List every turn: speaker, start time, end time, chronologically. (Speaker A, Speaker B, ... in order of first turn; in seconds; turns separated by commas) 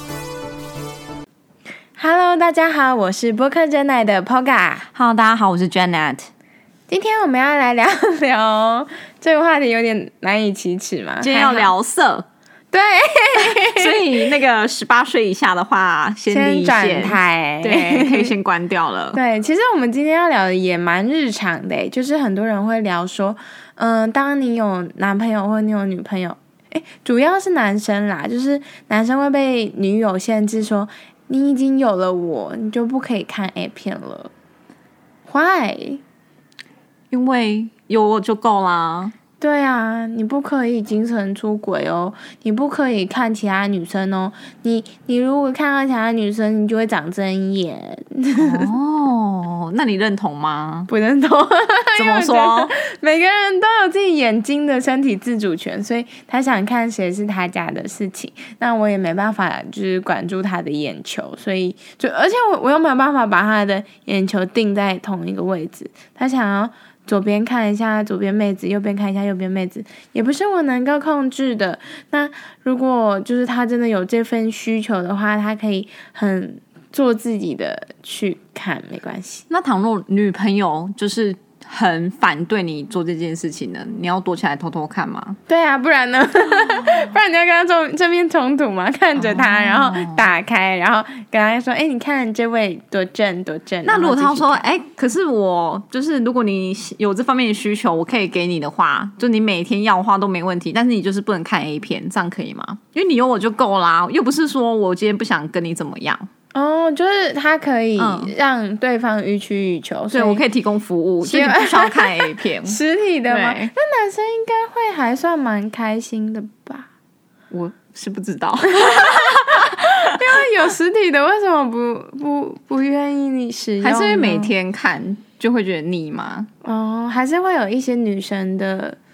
Speaker A: 2.0-4.9, Speaker B: 4.9-6.3, Speaker A: 6.9-11.7, Speaker B: 11.2-12.3, Speaker A: 12.7-14.3, Speaker B: 13.4-19.2, Speaker A: 16.3-18.3, Speaker A: 19.1-34.3, Speaker A: 35.3-36.0, Speaker B: 37.1-39.1, Speaker A: 39.4-48.7, Speaker B: 48.4-50.9, Speaker A: 50.9-79.5, Speaker B: 52.0-52.7, Speaker B: 79.5-85.4, Speaker A: 85.5-94.7, Speaker B: 89.2-90.3, Speaker B: 93.8-106.3, Speaker A: 106.5-110.4, Speaker B: 108.0-108.3, Speaker B: 110.1-112.8, Speaker A: 111.2-116.9, Speaker B: 113.3-113.7, Speaker B: 117.5-119.9, Speaker A: 118.7-124.5, Speaker B: 123.8-126.5, Speaker A: 126.6-129.0